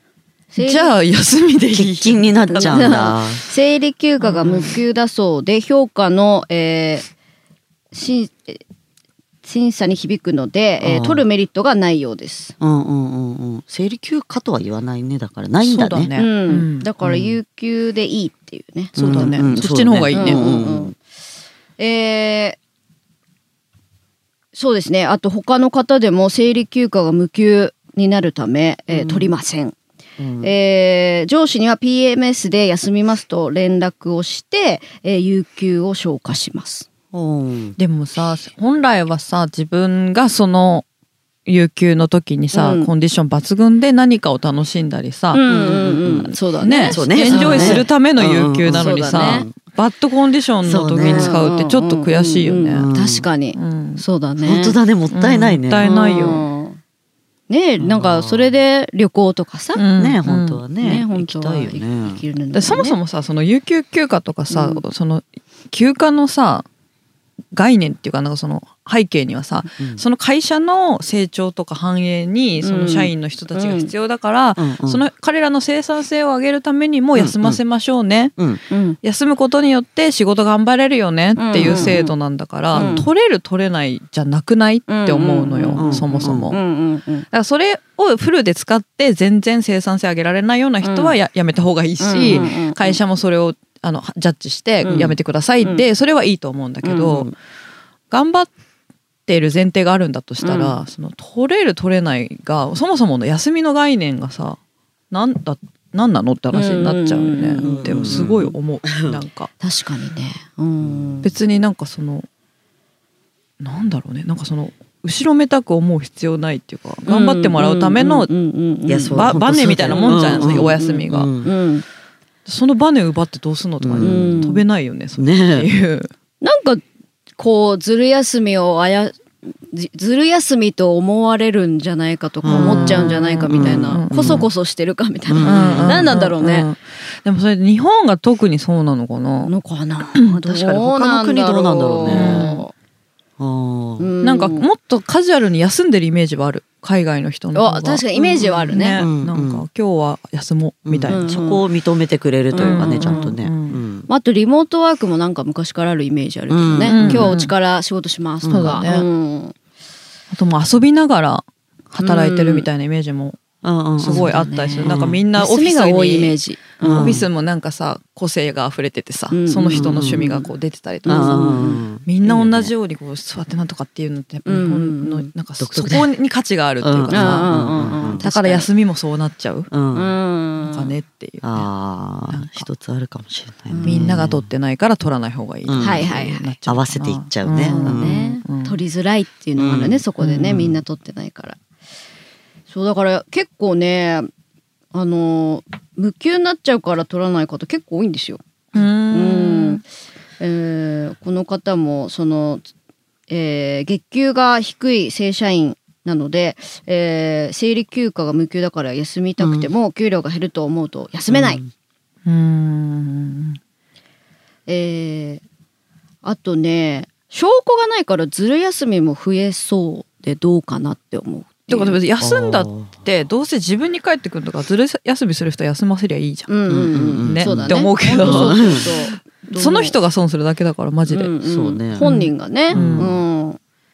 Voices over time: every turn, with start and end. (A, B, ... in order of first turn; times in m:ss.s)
0:00.5-0:00.9 A
0:00.6-0:03.1 B
0:01.7-0:03.4 C
0:02.6-0:07.1 A
0:04.2-0:04.8 B
0:07.9-0:08.6 A
0:09.4-0:12.5 A
0:10.8-0:11.2 C
0:12.6-0:16.1 C
0:15.6-0:16.9 B
0:16.2-0:19.6 A
0:17.0-0:17.4 C
0:19.0-0:20.4 B
0:19.0-0:20.9 C
0:20.1-0:20.9 A
0:21.8-0:22.6 A
0:24.5-0:29.8 A
0:28.9-0:29.3 C
0:30.2-0:30.5 C
0:30.4-0:36.9 A
0:37.1-0:37.8 C
0:37.8-0:40.8 B
0:41.4-0:45.4 B
0:42.5-0:42.9 A
0:45.3-0:47.8 A
0:45.4-0:46.3 C
0:46.0-0:52.9 B
0:46.9-0:49.5 C
0:48.7-0:49.5 A
0:50.6-0:51.4 C
0:51.0-0:54.8 A
0:52.7-0:53.3 C
0:53.5-0:54.0 B
0:54.4-0:55.9 C
0:55.1-0:56.4 B
0:55.8-0:56.8 A
0:57.5-0:59.8 A
0:57.8-0:58.5 C
0:59.8-1:00.6 B
1:00.0-1:02.2 C
1:00.8-1:03.0 A
1:02.5-1:06.6 B
1:04.5-1:04.8 A
1:07.5-1:18.4 B
1:12.6-1:13.9 A
1:14.6-1:15.0 C
1:17.1-1:17.6 C
1:18.7-1:19.0 A
1:19.0-1:26.6 B
1:21.4-1:22.1 A
1:21.6-1:22.0 C
1:22.7-1:23.0 C
1:22.7-1:23.1 A
1:24.9-1:27.2 A
1:25.8-1:26.5 C
1:27.3-1:37.3 B
1:30.8-1:31.1 A
1:32.0-1:33.0 A
1:32.1-1:32.5 C
1:34.8-1:35.8 A
1:34.8-1:35.2 C
1:36.8-1:37.3 A
1:38.1-1:38.5 B
1:39.3-1:44.6 B
1:40.4-1:40.8 A
1:45.1-1:49.5 B
1:46.5-1:48.5 A
1:47.6-1:49.2 C
1:49.6-1:51.3 A
1:50.8-1:51.2 C
1:51.2-1:52.3 B
1:53.6-1:58.3 B
1:57.0-2:01.8 A
1:58.9-2:01.5 C
1:59.1-2:01.3 B
2:02.4-2:06.1 B
2:03.8-2:04.4 C
2:04.0-2:04.6 A
2:05.2-2:05.7 C
2:06.4-2:06.8 A
2:07.4-2:16.7 A
2:12.4-2:14.5 C
2:12.4-2:14.4 B
2:15.3-2:16.2 C
2:15.4-2:19.5 B
2:19.4-2:22.7 A
2:20.1-2:20.4 B
2:20.5-2:22.5 C
2:22.0-2:22.6 B
2:23.4-2:24.1 C
2:24.0-2:24.6 A
2:24.2-2:31.2 B
2:27.5-2:29.0 A
2:28.9-2:29.6 C
2:30.8-2:34.1 C
2:31.1-2:31.6 A
2:32.5-2:33.3 A
2:32.6-2:33.8 B
2:34.1-2:39.5 A
2:36.5-2:37.3 C
2:36.8-2:37.5 B
2:38.4-2:38.8 C
2:38.5-2:39.0 B
2:40.3-2:43.4 B
2:42.0-2:42.7 A
2:43.6-2:45.2 C
2:43.9-2:57.5 B
2:44.0-2:47.1 A
2:46.8-2:47.3 C
2:49.3-2:50.5 A
2:49.7-2:50.3 C
2:51.0-2:51.8 A
2:51.0-2:52.7 C
2:54.4-2:55.3 A
2:55.6-2:56.1 C
2:56.8-2:58.2 C
2:57.1-2:58.7 A
2:58.1-2:59.7 B
2:59.7-3:00.1 C
2:59.9-3:00.9 A
3:00.6-3:01.7 B
3:01.4-3:04.5 C
3:02.2-3:02.7 B
3:03.7-3:04.2 A
3:03.8-3:08.8 B
3:05.6-3:06.1 C
3:05.8-3:06.5 A
3:06.6-3:08.2 C
3:07.6-3:11.6 A
3:09.6-3:10.8 C
3:10.2-3:10.6 B
3:12.7-3:14.3 A
3:14.9-3:18.4 A
3:18.7-3:19.8 B
3:19.1-3:19.8 A
3:20.4-3:22.6 A
3:23.3-3:31.6 A
3:29.4-3:29.7 C
3:31.3-3:31.7 C
3:32.2-3:33.6 B
3:34.7-3:35.4 A
3:36.2-3:42.0 A
3:41.7-3:46.5 B
3:42.2-3:43.0 C
3:46.5-3:50.0 A
3:46.7-3:48.9 C
3:47.2-3:51.3 B
3:51.1-3:53.6 A
3:51.4-3:52.1 C
3:52.0-3:53.1 B
3:52.7-3:53.2 C